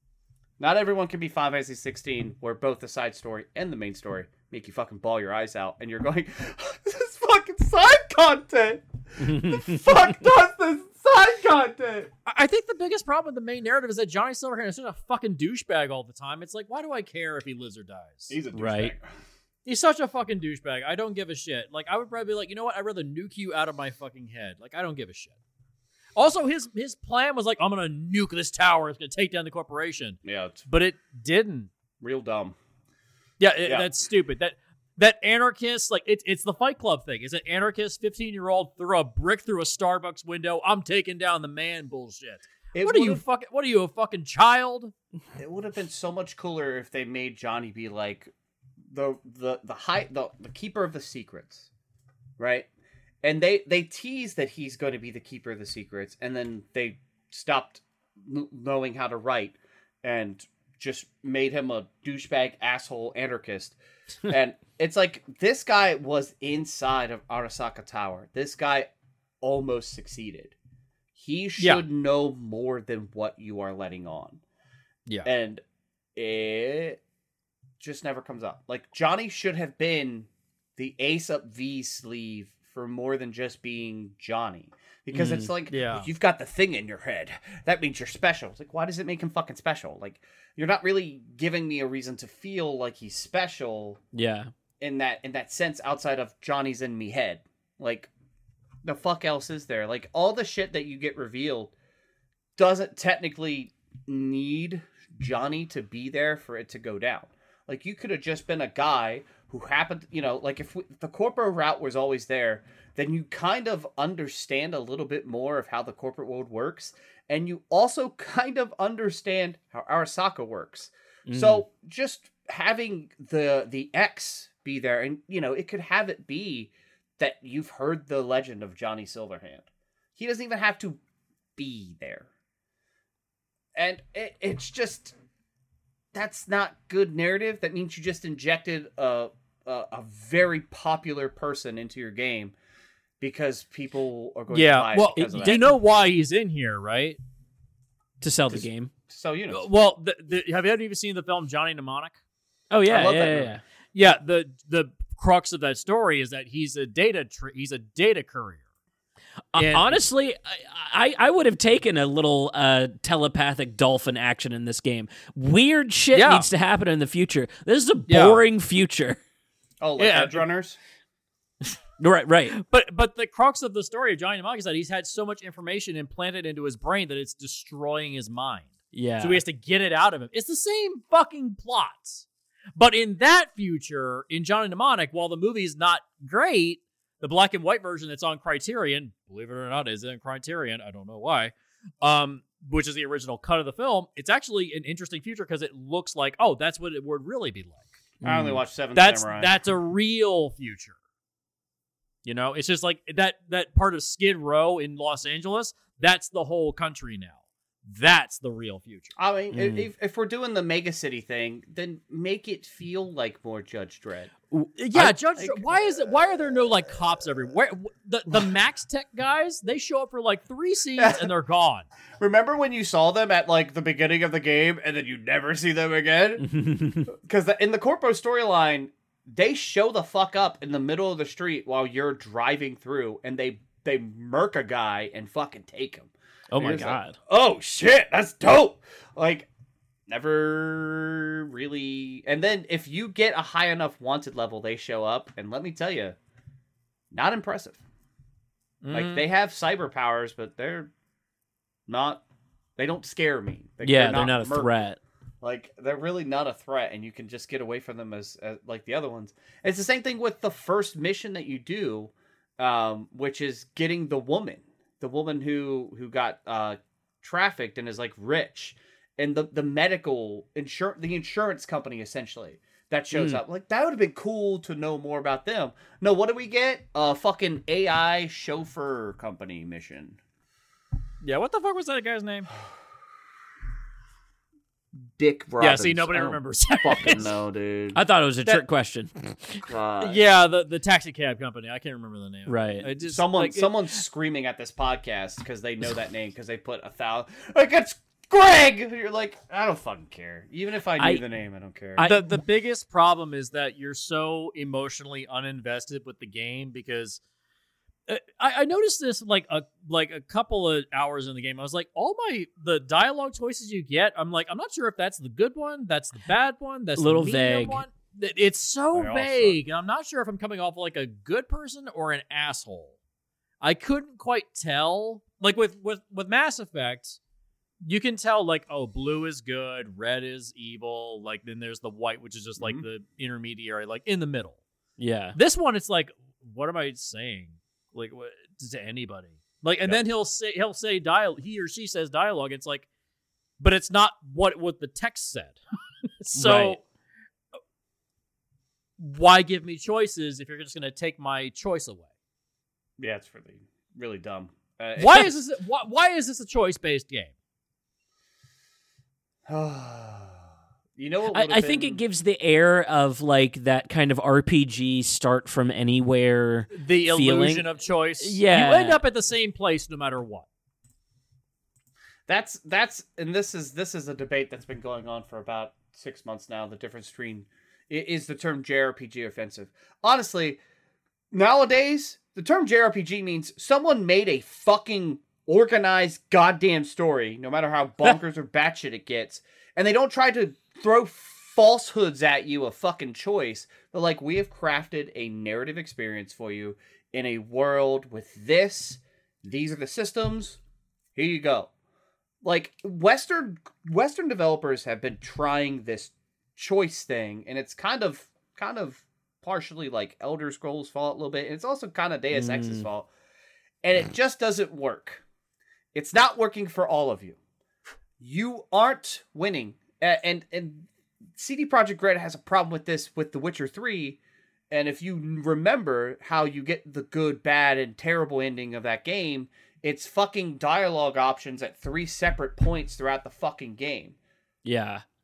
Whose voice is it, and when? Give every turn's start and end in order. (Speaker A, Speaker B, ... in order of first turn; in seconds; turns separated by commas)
Speaker A: 0.6-12.1, Speaker B: 9.2-10.1, Speaker C: 12.3-18.3, Speaker A: 18.3-19.1, Speaker B: 18.5-18.9, Speaker C: 19.6-25.4, Speaker C: 26.2-31.7, Speaker A: 30.2-30.6, Speaker A: 32.0-32.6, Speaker C: 33.4-44.9, Speaker A: 42.7-43.2, Speaker A: 45.4-48.3, Speaker A: 48.9-51.7, Speaker A: 52.4-52.7, Speaker A: 53.2-63.8, Speaker A: 64.3-68.9, Speaker A: 69.4-70.5, Speaker A: 71.2-74.4, Speaker C: 71.6-71.8, Speaker A: 75.2-75.6, Speaker A: 76.2-77.0, Speaker A: 77.8-94.0, Speaker B: 85.1-85.5, Speaker C: 85.7-86.1, Speaker B: 94.1-94.5, Speaker A: 94.8-98.1, Speaker A: 98.8-101.7, Speaker A: 102.6-131.0, Speaker B: 121.3-121.7, Speaker A: 131.6-132.3, Speaker A: 133.8-135.1, Speaker A: 136.1-142.5, Speaker A: 143.2-145.7, Speaker C: 144.5-147.2, Speaker B: 145.2-145.7, Speaker B: 148.2-148.9, Speaker A: 148.5-149.7, Speaker C: 149.5-152.2, Speaker B: 152.7-153.6, Speaker A: 152.9-153.6, Speaker C: 153.9-158.6, Speaker B: 159.5-169.2, Speaker C: 159.6-159.9, Speaker C: 166.1-166.5, Speaker C: 168.1-168.4, Speaker A: 169.8-170.8, Speaker C: 170.0-170.4, Speaker B: 172.0-172.5, Speaker C: 172.6-182.2, Speaker B: 178.9-179.4, Speaker C: 182.8-197.9, Speaker B: 198.2-198.6, Speaker A: 198.2-199.6, Speaker C: 198.9-200.9, Speaker C: 202.2-209.2, Speaker A: 209.2-214.3, Speaker B: 209.5-209.9, Speaker B: 214.5-215.2, Speaker C: 214.9-221.9, Speaker A: 215.4-216.6, Speaker A: 221.0-221.3, Speaker A: 222.2-226.5, Speaker B: 226.4-227.1, Speaker A: 227.1-239.5, Speaker B: 236.5-237.2, Speaker A: 240.1-246.2, Speaker A: 247.1-247.8, Speaker C: 248.8-249.2, Speaker A: 248.9-250.9, Speaker A: 251.9-252.2, Speaker A: 252.8-254.8, Speaker B: 253.8-255.0, Speaker A: 255.4-280.2, Speaker B: 273.1-273.4, Speaker C: 281.2-282.5, Speaker A: 285.2-288.0, Speaker C: 285.6-287.3, Speaker B: 287.9-289.7, Speaker A: 289.7-290.2, Speaker C: 290.0-293.7, Speaker B: 292.5-292.9, Speaker A: 293.0-302.1, Speaker B: 301.0-301.2, Speaker B: 302.0-302.4, Speaker C: 302.0-307.2, Speaker C: 308.1-322.9, Speaker B: 317.0-317.9, Speaker A: 318.9-319.6, Speaker C: 323.6-327.2, Speaker C: 327.8-334.6, Speaker B: 335.0-335.4, Speaker C: 335.4-342.9, Speaker C: 343.6-345.6, Speaker C: 346.2-346.8, Speaker B: 346.4-346.8, Speaker C: 349.0-352.1, Speaker A: 353.0-355.3, Speaker C: 355.0-357.3, Speaker A: 359.5-360.4, Speaker A: 361.0-362.0, Speaker B: 361.3-367.7, Speaker C: 366.7-370.5, Speaker B: 368.2-369.0, Speaker A: 372.3-380.6, Speaker A: 381.3-400.6, Speaker A: 401.2-401.7, Speaker A: 402.4-413.1, Speaker B: 412.3-412.9, Speaker A: 413.8-415.2, Speaker A: 415.9-417.4, Speaker A: 418.2-424.2, Speaker A: 424.7-434.1, Speaker B: 434.6-435.0